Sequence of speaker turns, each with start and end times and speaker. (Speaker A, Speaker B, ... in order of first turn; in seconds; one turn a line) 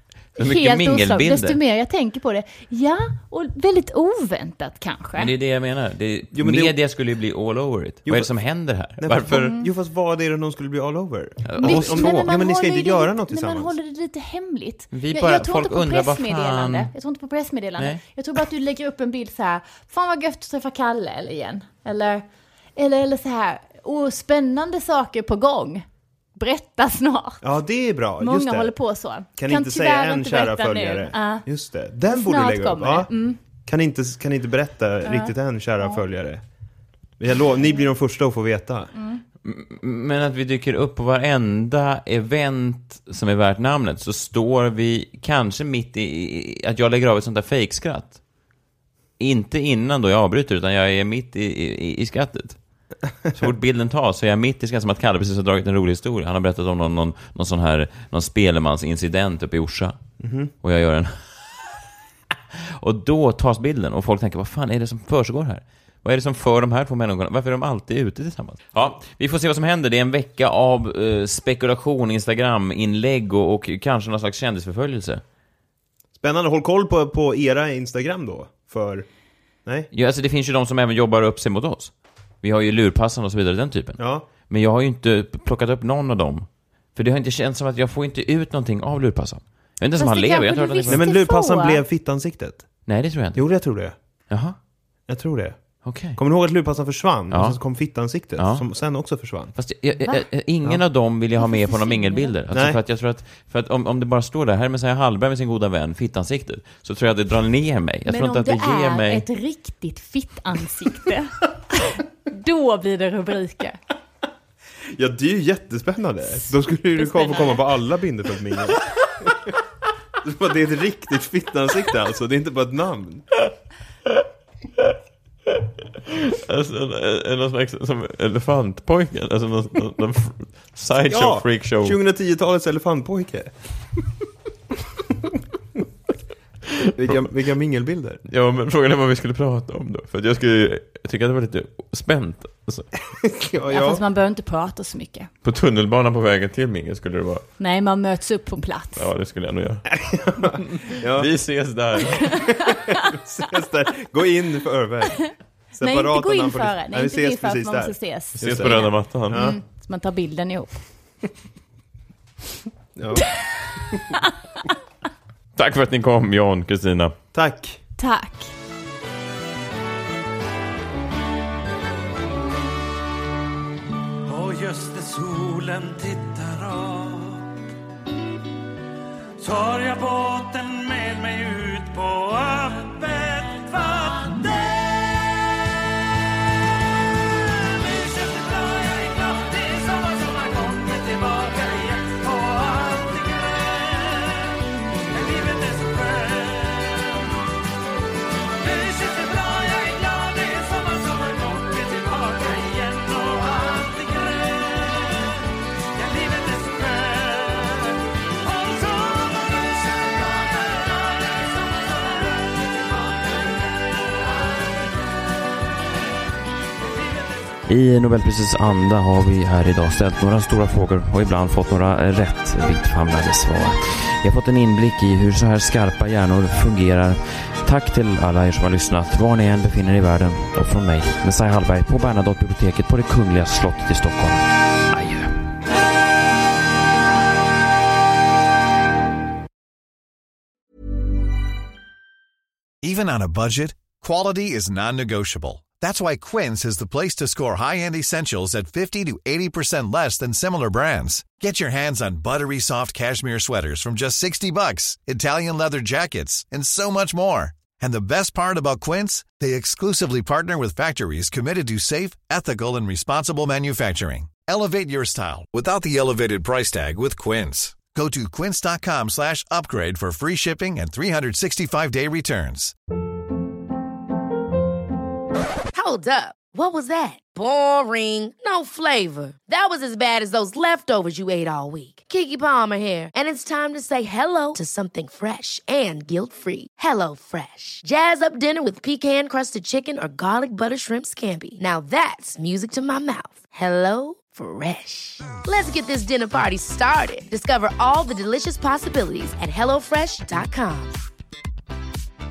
Speaker A: 0.4-1.6
Speaker B: 0.4-5.3
Speaker A: 5.2-9.5
Speaker C: 6.3-6.7
Speaker C: 8.1-8.3
Speaker C: 9.0-13.8
Speaker B: 9.4-9.7
Speaker A: 11.4-12.3
Speaker B: 11.6-22.2
Speaker A: 14.9-16.9
Speaker B: 22.8-25.9
Speaker B: 26.4-27.5
Speaker C: 27.4-28.7
Speaker B: 28.2-31.5
Speaker C: 29.4-33.1
Speaker B: 32.1-33.4
Speaker C: 33.7-36.4
Speaker B: 35.0-36.0
Speaker C: 37.2-38.9
Speaker B: 39.0-39.2
Speaker A: 39.4-48.2
Speaker A: 49.2-52.6
Speaker A: 53.3-60.0
Speaker C: 60.2-60.5
Speaker A: 60.6-61.2
Speaker A: 62.5-75.2
Speaker C: 76.2-79.0
Speaker A: 79.9-91.0
Speaker C: 84.0-84.2
Speaker B: 90.0-91.8
Speaker C: 90.9-92.7
Speaker A: 92.9-93.4
Speaker C: 93.3-93.9
Speaker A: 94.3-94.6
Speaker C: 95.1-95.6
Speaker A: 95.8-96.2
Speaker C: 96.2-99.5
Speaker A: 97.3-97.6
Speaker A: 98.4-98.7
Speaker A: 99.5-109.2
Speaker B: 100.0-100.3
Speaker B: 101.4-102.3
Speaker C: 102.5-102.8
Speaker B: 108.1-113.8
Speaker C: 115.0-119.5
Speaker B: 116.3-117.7
Speaker C: 120.2-123.2
Speaker A: 126.1-132.0
Speaker C: 131.1-133.5
Speaker C: 137.0-138.2
Speaker A: 138.3-142.9
Speaker C: 143.2-144.0
Speaker B: 143.7-145.3
Speaker A: 145.4-147.5
Speaker B: 147.6-149.1
Speaker A: 149.0-149.9
Speaker C: 149.9-151.3
Speaker A: 150.5-152.4
Speaker C: 152.2-159.6
Speaker B: 155.8-160.8
Speaker A: 158.4-159.5
Speaker C: 163.0-163.4
Speaker A: 165.6-167.2
Speaker C: 167.3-167.8
Speaker B: 168.0-168.5
Speaker D: 174.3-177.5
Speaker D: 179.4-185.3
Speaker D: 187.6-194.5
Speaker D: 195.1-197.4
Speaker D: 198.6-213.6
Speaker A: 217.7-235.3
Speaker E: 242.8-272.7
Speaker F: 275.7-301.0